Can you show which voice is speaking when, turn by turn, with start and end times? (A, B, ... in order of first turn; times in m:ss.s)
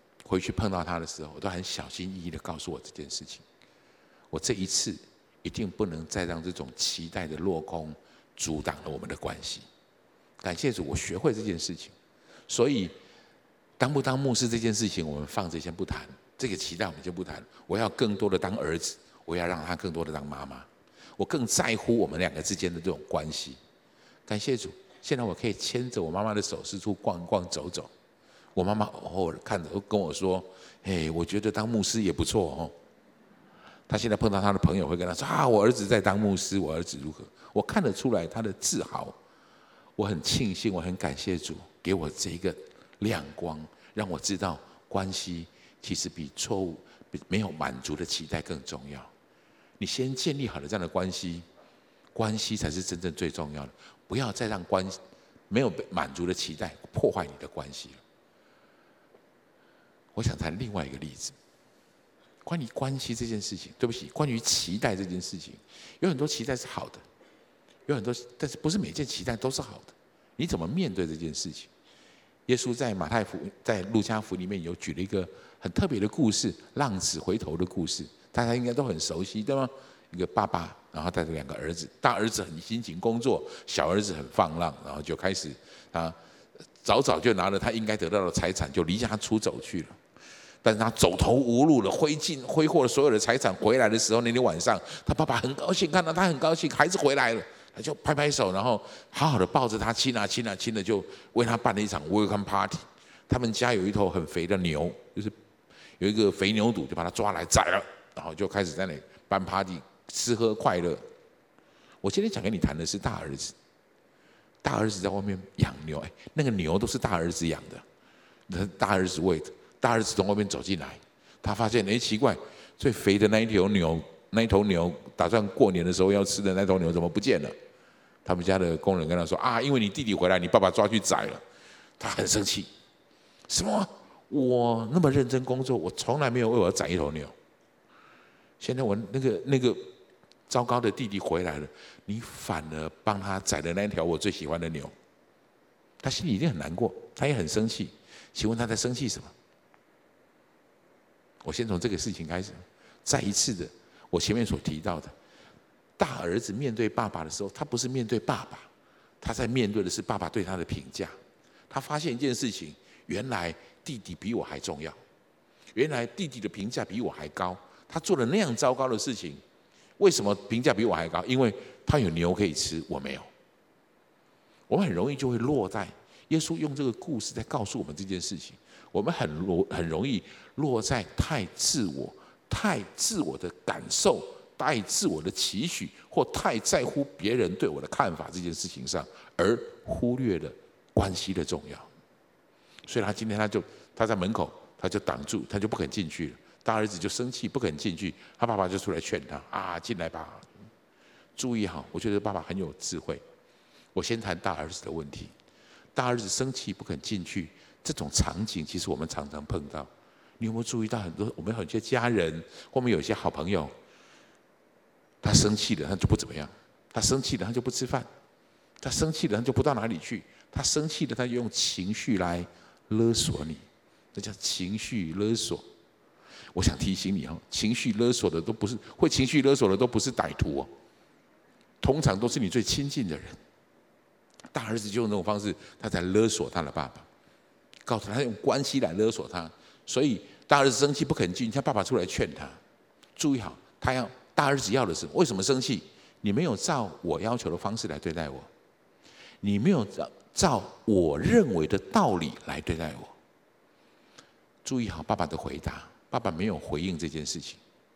0:00.2-0:03.4 A
0:04.3-0:09.6 A
0:10.4-0:11.9 A
0:12.5-0:12.9 A
0:13.8-0:23.6 A
0:24.3-0:27.9 A
0:28.5-0:32.7 A
0:33.9-0:39.2 A
0:40.0-0:49.1 A
0:49.8-0:51.4 A
0:52.1-0:55.0 A
0:55.5-0:58.0 A
1:00.1-1:01.3 A
1:02.4-1:07.0 A
1:07.9-1:11.7 A
1:12.5-1:26.2 A
1:26.8-1:30.0 A
1:30.6-1:45.3 A
1:46.0-1:51.0 A
1:52.0-1:53.5 A
1:54.6-1:57.8 A
1:58.5-2:07.5 A
2:08.2-2:11.4 A
2:12.0-2:12.7 A
2:13.5-2:17.3 A
2:18.6-2:19.9 A
2:20.5-2:24.9 A
2:26.0-2:29.3 A
2:31.4-2:35.1 A
2:36.0-2:38.7 A
2:39.2-2:41.2 A
2:41.7-2:45.0 A
2:45.7-2:49.4 A
2:50.0-2:53.3 A
2:54.7-3:11.9 A
3:12.9-3:20.5 A
3:21.4-3:23.2 A
3:23.9-3:25.3 A
3:26.0-3:33.7 A
3:35.2-3:38.1 A
3:38.8-3:45.6 A
3:46.5-3:50.7 A
3:51.8-3:53.4 A
3:54.5-3:57.0 A
3:57.8-4:02.6 A
4:03.2-4:08.5 A
4:09.4-4:13.1 A
4:14.6-4:17.6 A